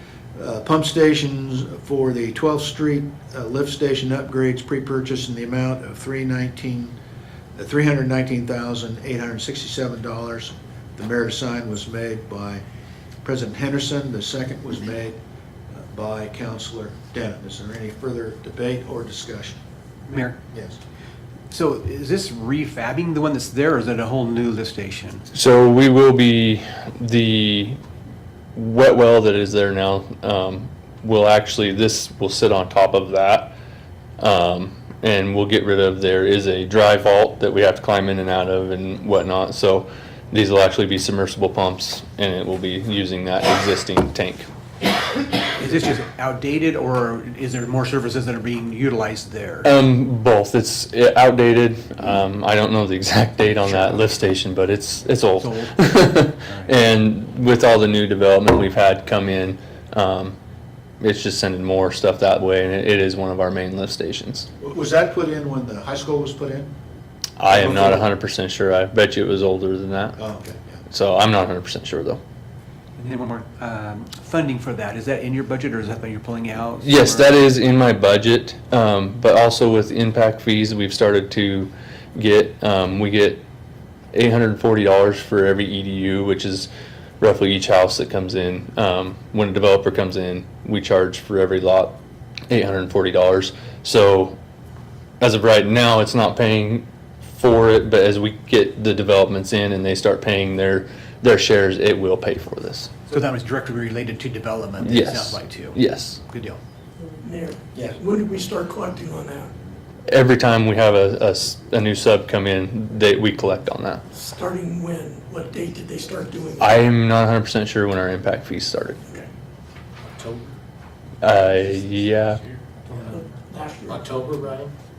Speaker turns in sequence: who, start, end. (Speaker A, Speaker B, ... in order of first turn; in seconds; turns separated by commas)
Speaker A: 0.3-7.0, Speaker A: 7.6-12.6, Speaker A: 13.2-15.2, Speaker A: 15.7-19.6, Speaker B: 20.1-20.4, Speaker A: 20.5-20.8, Speaker B: 21.5-25.2, Speaker C: 25.3-27.8, Speaker C: 28.6-33.6, Speaker C: 34.2-44.5, Speaker B: 45.6-49.7, Speaker C: 49.6-60.4, Speaker B: 53.6-54.0, Speaker B: 55.4-56.7, Speaker C: 61.0-64.5, Speaker A: 64.6-66.7, Speaker C: 67.4-70.2, Speaker A: 67.5-68.1, Speaker A: 70.2-70.8, Speaker C: 70.9-72.2, Speaker B: 73.0-77.5, Speaker C: 76.8-83.4, Speaker C: 84.1-86.7, Speaker C: 87.2-92.0, Speaker C: 92.5-94.4, Speaker C: 95.2-102.9, Speaker B: 103.1-106.6, Speaker C: 104.8-106.2, Speaker D: 107.2-109.5, Speaker A: 107.7-108.0, Speaker C: 110.1-114.0, Speaker D: 114.2-116.8, Speaker C: 116.6-119.0, Speaker A: 120.1-120.5, Speaker C: 121.2-122.4, Speaker D: 123.1-124.1, Speaker A: 124.1-124.7